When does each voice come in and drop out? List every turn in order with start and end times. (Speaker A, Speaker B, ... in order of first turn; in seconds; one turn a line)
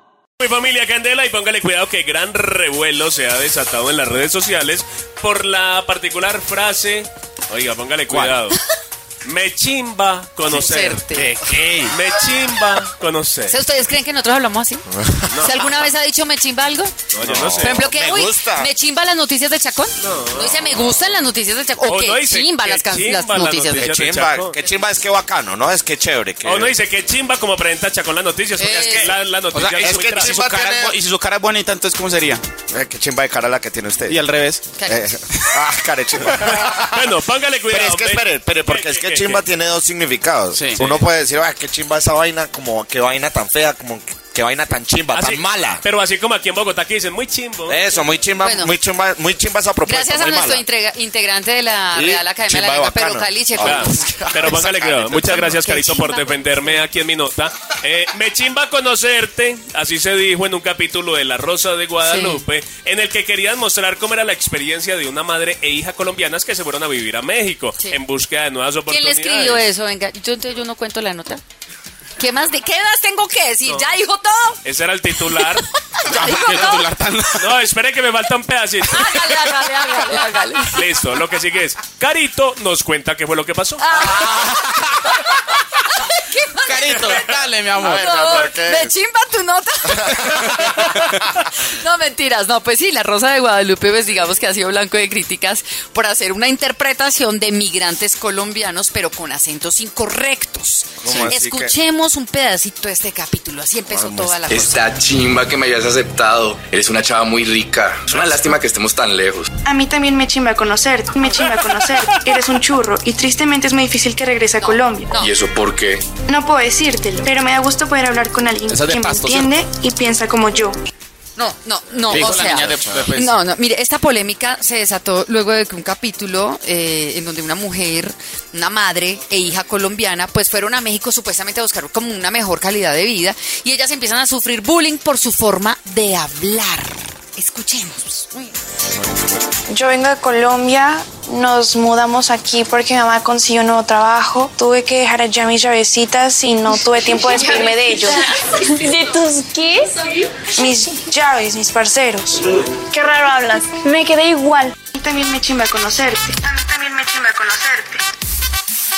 Speaker A: 0.4-8.6
Speaker B: 8.1-8.4
Speaker A: 9.2-11.1
Speaker C: 10.5-11.3
Speaker B: 11.1-11.9
Speaker A: 11.9-13.6
Speaker C: 13.5-14.9
Speaker A: 15.3-15.7
Speaker C: 15.4-16.9
Speaker A: 17.1-17.8
Speaker D: 17.2-18.7
Speaker C: 17.6-23.9
Speaker A: 20.0-20.6
Speaker D: 20.3-21.2
Speaker A: 21.9-24.6
Speaker D: 23.7-26.8
Speaker A: 26.4-30.4
Speaker C: 28.6-29.1
Speaker D: 28.6-29.2
Speaker B: 29.5-32.4
Speaker D: 29.8-31.0
Speaker D: 32.7-34.2
Speaker B: 34.1-34.7
Speaker C: 34.7-35.1
Speaker D: 34.9-37.2
Speaker A: 36.2-39.4
Speaker D: 37.7-45.8
Speaker B: 40.5-40.8
Speaker A: 40.8-41.1
Speaker A: 45.1-48.1
Speaker D: 47.7-50.6
Speaker C: 48.4-48.7
Speaker C: 49.9-54.1
Speaker D: 51.9-55.6
Speaker A: 53.6-69.6
Speaker C: 55.5-56.8
Speaker C: 62.0-62.4
Speaker C: 68.9-71.4
Speaker C: 72.2-74.6
Speaker A: 73.7-73.9
Speaker A: 74.6-75.7
Speaker C: 75.3-76.8
Speaker B: 76.1-77.6
Speaker A: 77.4-79.6
Speaker C: 78.8-80.9
Speaker A: 80.7-83.8
Speaker C: 83.8-105.0
Speaker B: 86.6-88.0
Speaker D: 87.8-88.9
Speaker D: 90.0-91.2
Speaker D: 101.0-101.8
Speaker D: 103.9-104.4
Speaker E: 104.5-109.5
Speaker D: 108.2-108.5
Speaker F: 109.6-115.1
Speaker C: 114.6-115.3
Speaker E: 115.2-116.1
Speaker F: 116.3-120.8
Speaker B: 118.7-119.5
Speaker C: 121.4-138.5
Speaker B: 122.1-123.4
Speaker F: 139.7-148.2
Speaker G: 148.6-150.1
Speaker F: 150.6-152.4
Speaker G: 152.8-154.8
Speaker F: 154.9-158.0